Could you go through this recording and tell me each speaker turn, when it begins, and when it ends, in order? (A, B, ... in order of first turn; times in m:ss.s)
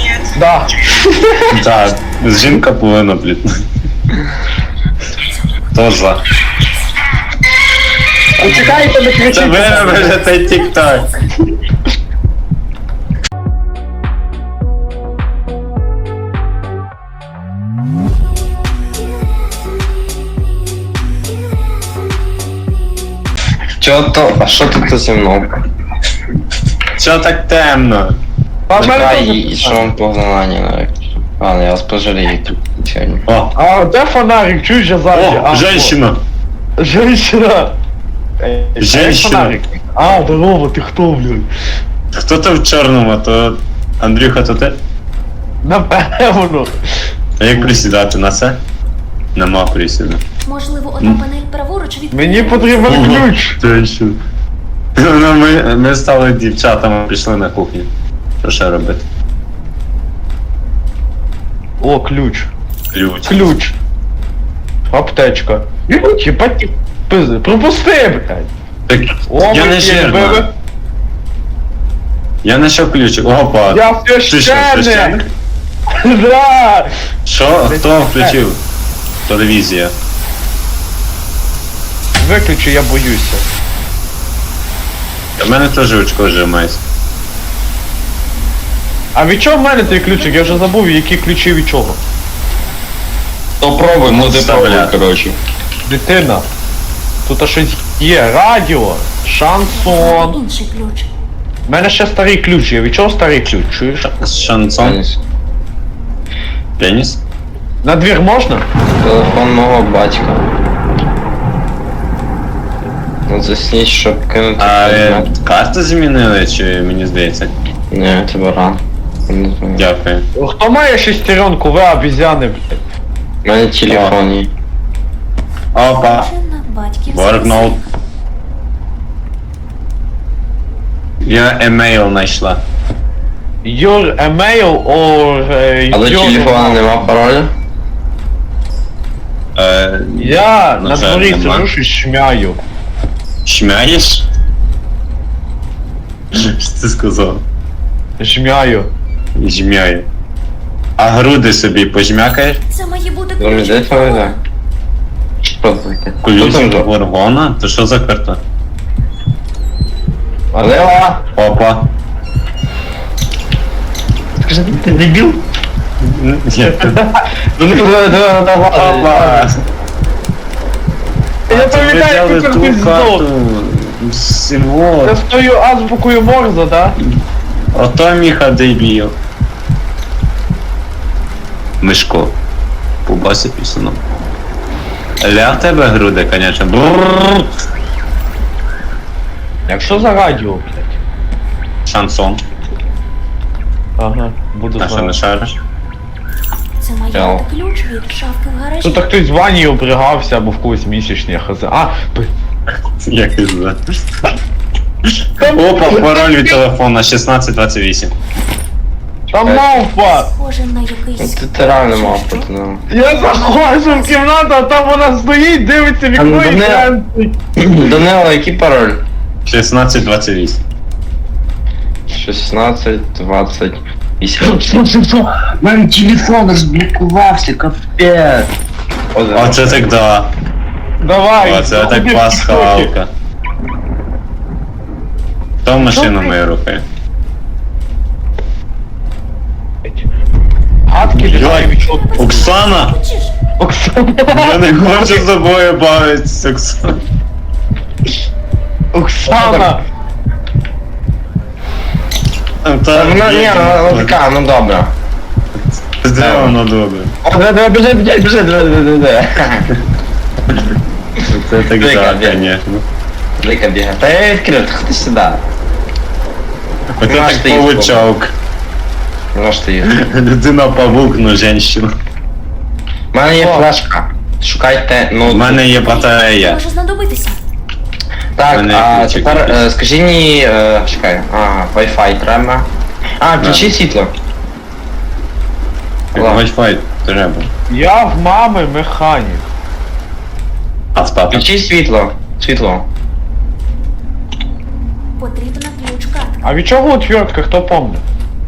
0:00.3-0:01.0 A
0:01.5-0:03.5 B
0:05.7-0:06.2 B
0:08.4-0:10.3 C
0:08.4-0:09.6 A
0:09.3-0:11.1 B
0:23.8-0:25.6 C
0:27.0-0:28.2 B
0:28.7-0:29.9 A
0:28.7-0:33.3 C
0:33.3-0:33.5 B
0:33.6-0:36.0 A
0:35.1-0:36.2 B
0:36.8-0:37.8 A
0:38.4-0:41.5 A
0:38.8-0:39.6 B
0:42.1-0:44.8 B
0:45.6-0:46.8 A
0:47.4-0:48.6 B
0:49.4-0:50.2 B
0:50.4-0:53.0 D
0:52.1-0:53.6 A
0:52.8-0:54.2 B
0:55.0-0:57.9 B
0:58.4-0:59.0 B
1:01.8-1:02.5 A
1:02.9-1:03.6 B
1:03.2-1:03.8 A
1:04.9-1:08.5 A
1:08.9-1:10.5 B
1:09.3-1:10.5 A
1:12.4-1:15.3 B
1:13.7-1:15.2 A
1:16.0-1:16.9 A
1:17.3-1:18.6 B
1:17.6-1:18.4 A
1:19.3-1:19.9 B
1:22.2-1:23.4 A
1:25.4-1:26.8 B
1:29.2-1:32.0 A
1:29.9-1:30.7 D
1:33.6-1:35.4 C
1:34.1-1:35.0 B
1:35.8-1:36.5 A
1:37.3-1:40.4 A
1:39.7-1:41.1 D
1:41.7-1:44.1 A
1:44.0-1:45.0 B
1:44.8-1:45.2 C
1:46.8-1:47.2 B
1:47.8-1:48.7 A
1:49.0-1:50.4 C
1:53.3-1:55.3 C
1:54.6-1:57.5 B
1:57.9-1:59.8 C
1:59.8-2:00.3 B
2:00.4-2:02.8 A
2:03.4-2:04.5 C
2:03.9-2:04.2 B
2:05.7-2:06.3 B
2:06.0-2:07.9 D
2:07.1-2:07.8 B
2:11.2-2:12.6 B
2:13.6-2:17.0 A
2:15.9-2:17.5 C
2:19.6-2:21.7 B
2:20.2-2:22.6 A
2:23.5-2:24.3 B
2:26.4-2:27.4 B
2:28.2-2:28.9 A
2:29.4-2:30.1 B
2:31.0-2:32.6 B
2:32.7-2:34.4 D
2:33.4-2:34.4 C
2:35.4-2:36.9 C
2:36.2-2:38.4 B
2:40.5-2:41.0 A
2:40.6-2:41.2 C
2:41.3-2:41.9 B
2:44.4-2:45.4 C
2:46.0-2:47.0 B
2:47.6-2:49.5 C
2:48.7-2:49.6 B
2:51.5-2:53.2 A
2:51.5-2:55.2 B
2:55.0-2:57.0 A
2:57.7-2:59.2 B
3:01.8-3:02.4 B
3:03.1-3:04.0 B
3:05.2-3:07.5 B
3:09.7-3:10.1 C
3:09.8-3:11.0 A
3:11.9-3:12.4 B
3:14.0-3:15.2 A
3:14.8-3:15.6 B
3:16.8-3:19.1 D
3:17.1-3:17.4 C
3:18.8-3:22.3 A
3:23.0-3:23.8 B
3:25.1-3:28.1 B
3:25.4-3:26.2 A
3:29.3-3:30.3 A
3:29.4-3:29.8 C
3:29.9-3:32.5 D
3:31.2-3:32.8 C
3:32.9-3:37.3 A
3:33.2-3:34.2 D
3:36.2-3:36.9 C
3:37.6-3:39.0 C
3:39.5-3:40.6 B
3:42.1-3:44.9 C
3:45.0-3:48.5 E
3:49.1-3:49.9 C
3:49.3-3:50.3 B
3:51.0-3:52.9 A
3:51.4-3:53.1 B
3:55.6-3:56.8 B
3:55.8-3:56.3 A
4:00.9-4:02.2 A
4:01.2-4:03.0 B
4:01.6-4:03.4 D
4:03.6-4:05.2 A
4:04.3-4:07.0 B
4:08.9-4:09.8 A
4:09.3-4:09.8 C
4:12.6-4:14.2 B
4:12.9-4:14.9 C
4:15.9-4:17.1 B
4:16.2-4:16.6 C
4:17.2-4:19.7 C
4:21.3-4:22.8 B
4:21.8-4:22.5 C
4:23.4-4:25.4 C
4:27.0-4:28.3 B
4:27.0-4:28.0 C
4:29.3-4:29.9 C
4:29.8-4:31.9 B
4:33.1-4:35.6 C
4:33.4-4:33.7 A
4:35.3-4:36.6 B
4:35.8-4:37.4 D
4:38.4-4:44.1 C
4:38.5-4:39.6 B
4:43.4-4:43.7 B
4:46.2-4:46.4 C
4:46.2-4:47.5 B
4:47.7-4:49.5 A
4:51.0-4:51.5 B
4:51.3-4:52.9 C
4:55.2-4:56.3 D
4:56.4-4:58.0 A